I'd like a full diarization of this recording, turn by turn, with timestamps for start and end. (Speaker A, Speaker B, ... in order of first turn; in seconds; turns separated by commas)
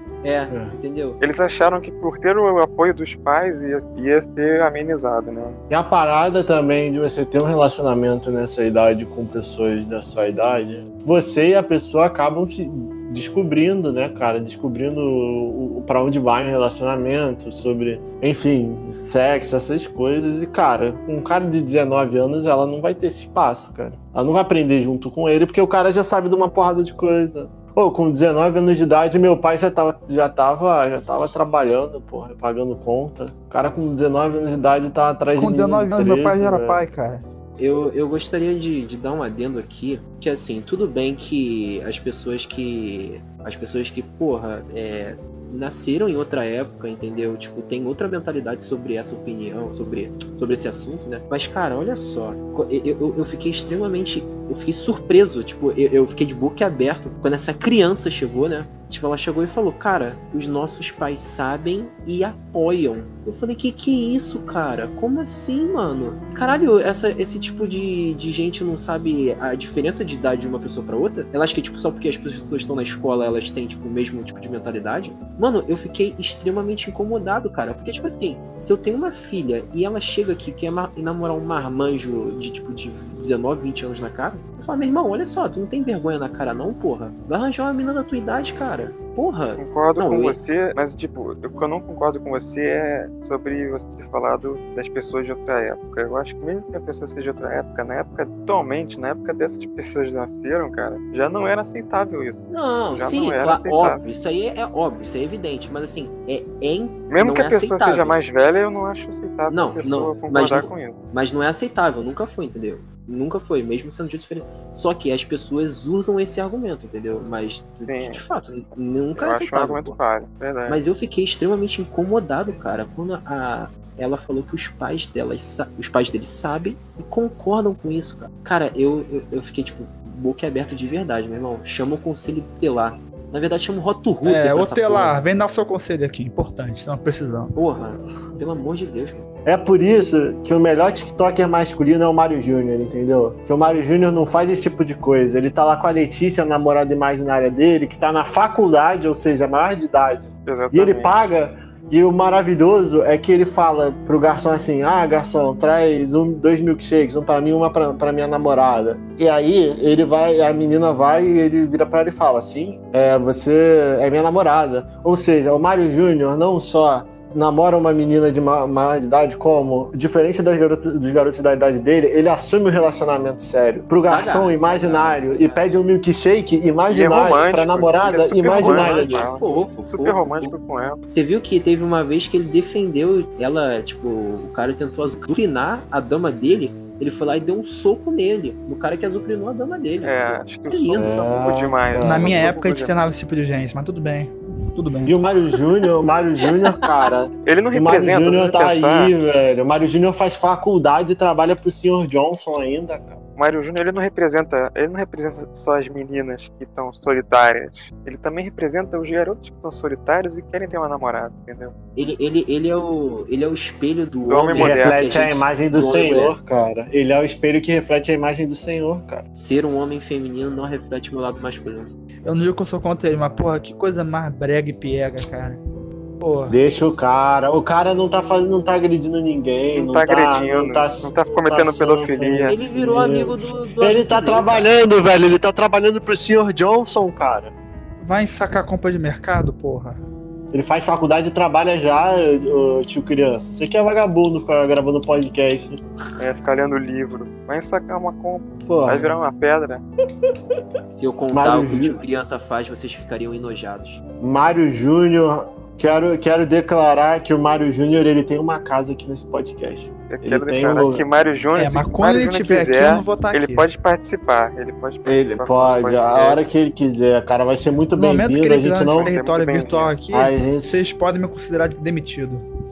Speaker A: 0.2-1.2, Speaker B: 1.2-5.6, Speaker C: 5.7-36.8, Speaker D: 35.4-37.2, Speaker A: 37.6-90.4, Speaker B: 89.6-104.0, Speaker A: 102.5-108.2, Speaker B: 107.1-111.0, Speaker A: 109.5-120.0, Speaker B: 117.9-118.2, Speaker B: 119.2-120.8, Speaker A: 120.7-135.2, Speaker D: 134.2-137.6, Speaker A: 137.6-139.3, Speaker C: 139.5-179.3, Speaker B: 150.5-151.1, Speaker A: 174.1-175.7, Speaker B: 176.9-181.0, Speaker A: 178.5-180.6, Speaker A: 181.1-191.4, Speaker B: 190.0-192.9, Speaker C: 190.9-192.4, Speaker D: 192.0-195.2, Speaker C: 195.1-203.2, Speaker B: 197.4-199.1, Speaker B: 203.4-211.7, Speaker A: 212.0-216.4, Speaker B: 214.3-215.0, Speaker C: 214.5-219.2, Speaker A: 219.4-221.9, Speaker D: 222.3-225.6, Speaker D: 226.2-226.6, Speaker C: 226.5-237.5, Speaker B: 229.7-232.6, Speaker A: 232.5-234.7, Speaker D: 238.0-240.0, Speaker C: 240.5-245.8, Speaker B: 246.2-249.8, Speaker C: 248.7-249.2, Speaker A: 251.0-254.0, Speaker C: 251.3-252.0, Speaker C: 254.2-261.1, Speaker B: 260.1-266.4, Speaker D: 261.6-263.7, Speaker C: 265.1-269.1, Speaker D: 267.9-272.4, Speaker B: 268.9-270.0, Speaker C: 270.1-270.9